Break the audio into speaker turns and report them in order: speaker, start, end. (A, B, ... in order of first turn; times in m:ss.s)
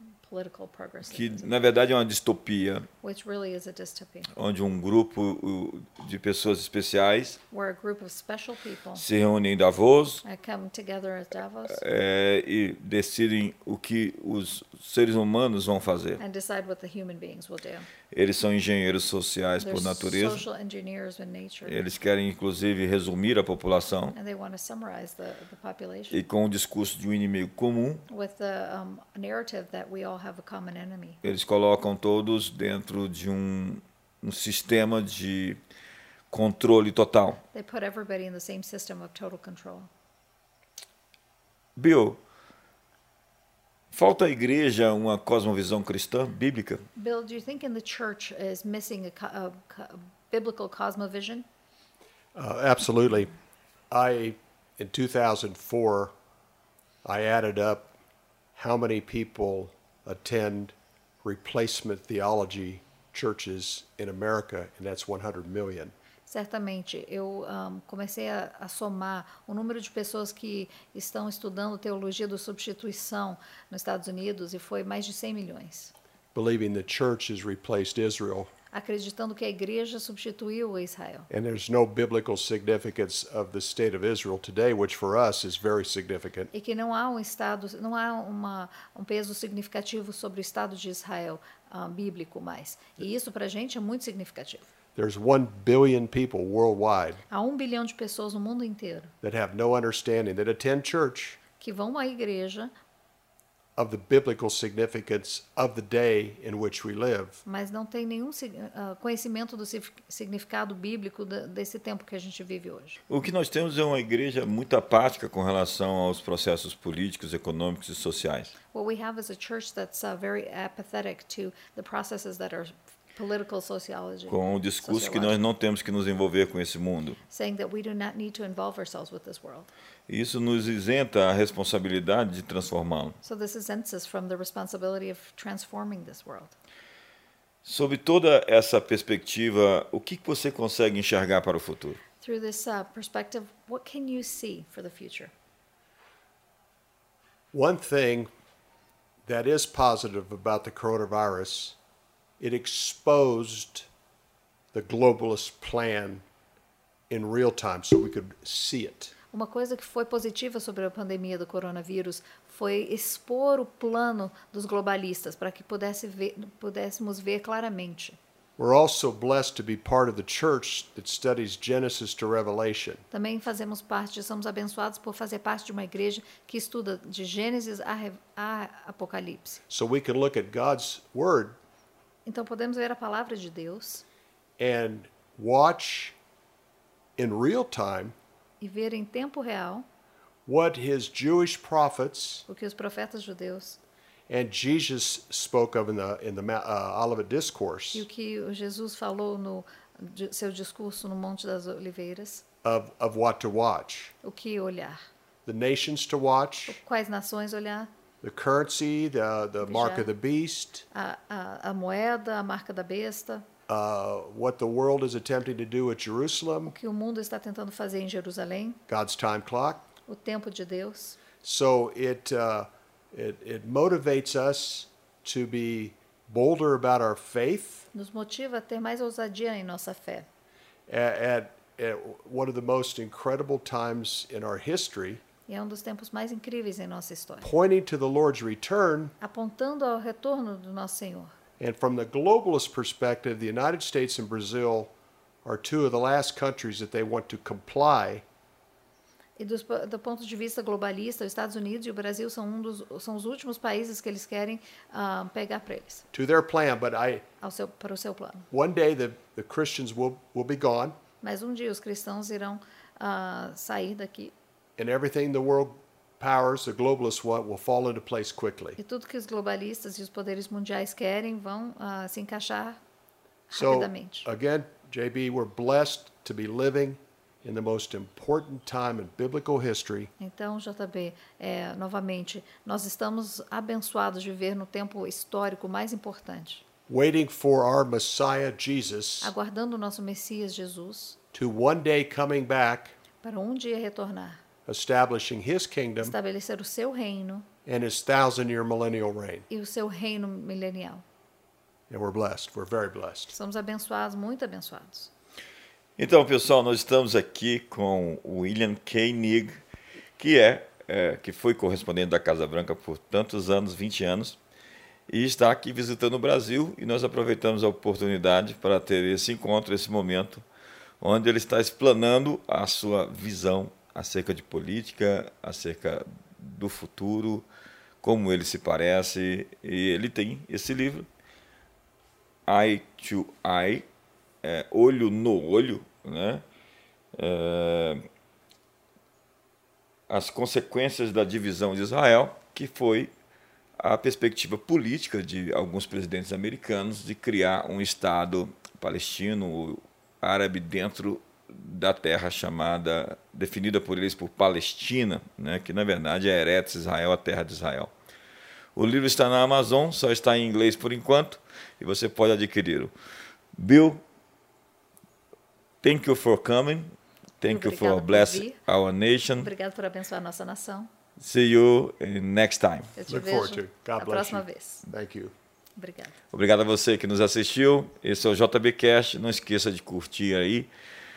0:00.2-0:01.5 A
0:01.1-0:02.9 B
0:03.0-0:04.3 A
0:04.4-0:07.4 B
0:07.5-0:09.0 A
0:09.0-0:10.2 B
0:10.2-0:11.8 A
0:11.8-0:16.2 B
0:16.2-0:17.9 A
0:18.1-0:20.4 B
0:19.6-0:21.8 A
0:21.7-0:24.2 B
0:24.1-0:26.2 A
0:26.1-0:28.0 B
0:28.1-0:31.2 A
0:31.2-0:35.6 B
0:36.3-0:37.4 B
0:37.5-0:39.9 A
0:41.8-0:42.2 B
0:43.9-0:46.9 B
0:47.0-0:51.4 A
0:52.4-0:53.3 C
0:53.9-0:56.1 C
0:57.0-0:57.9 C
0:58.6-1:05.9 C
1:06.3-1:15.9 A
1:16.3-1:18.5 C
1:18.7-1:21.3 A
1:21.3-1:26.5 C
1:26.5-1:34.7 A
1:35.0-1:37.2 C
1:37.3-1:39.1 A
1:39.2-1:41.4 C
1:41.6-1:42.7 A
1:43.8-1:47.4 C
1:47.4-1:53.0 A
1:53.1-1:58.6 B
1:58.7-2:05.4 A
2:04.3-2:07.2 B
2:07.3-2:09.7 A
2:10.1-2:13.2 B
2:13.2-2:16.5 A
2:17.6-2:22.0 B
2:22.2-2:25.3 A
2:27.5-2:28.3 C
2:29.2-2:31.8 C
2:32.4-2:33.9 C
2:34.7-2:36.2 C
2:37.1-2:39.1 C
2:39.3-2:48.2 A
2:48.6-2:53.0 C
2:53.1-2:59.6 A
2:59.7-3:01.6 C
3:02.3-3:04.0 A
3:04.6-3:06.2 C
3:07.2-3:08.2 C
3:08.6-3:09.9 A
3:10.5-3:12.5 C
3:12.5-3:13.8 A
3:14.3-3:18.1 C
3:17.9-3:22.4 A
3:22.6-3:24.1 C
3:24.2-3:25.0 A
3:25.5-3:26.8 C
3:26.7-3:27.9 A
3:28.2-3:30.9 C
3:29.6-3:30.1 A
3:30.9-3:33.4 A
3:33.7-3:36.7 C
3:36.7-3:38.8 A
3:38.9-3:39.9 C
3:40.1-3:41.2 A
3:41.4-3:47.9 C
3:47.9-3:50.3 A
3:50.9-3:55.2 C
3:55.5-3:57.5 A
3:57.4-3:59.2 C
3:59.2-4:01.3 A
4:01.6-4:04.9 C
4:05.4-4:08.2 C
4:09.4-4:16.0 A
4:16.1-4:17.2 C
4:17.4-4:18.5 A
4:18.5-4:21.0 C
4:21.2-4:24.3 A
4:24.8-4:28.8 C
4:28.8-4:32.8 A
4:33.5-4:34.3 A
4:33.5-4:40.1 C
4:40.2-4:46.6 A
4:46.9-4:49.3 C
4:49.2-4:51.2 A
4:51.3-4:53.0 C
4:53.2-4:54.4 A
4:54.7-4:56.2 C
4:56.0-4:57.5 A
4:57.7-4:59.4 C
4:59.5-5:01.0 A
5:01.9-5:03.4 C
5:03.3-5:05.1 A
5:06.0-5:09.6 B
5:10.2-5:14.4 B
5:15.1-5:20.4 B
5:21.0-5:27.4 B
5:28.0-5:31.1 B
5:32.5-5:33.8 B
5:34.4-5:36.4 B
5:37.2-5:38.0 B
5:40.1-5:43.1 B
5:43.8-5:57.9 B
5:58.8-6:02.9 B
6:03.6-6:04.0 B
6:05.8-6:09.5 B
6:07.4-6:08.6 A
6:09.4-6:10.9 A
6:11.2-6:12.9 B
6:13.0-6:14.9 A
6:13.1-6:15.3 C
6:15.8-6:16.2 A
6:16.3-6:20.7 B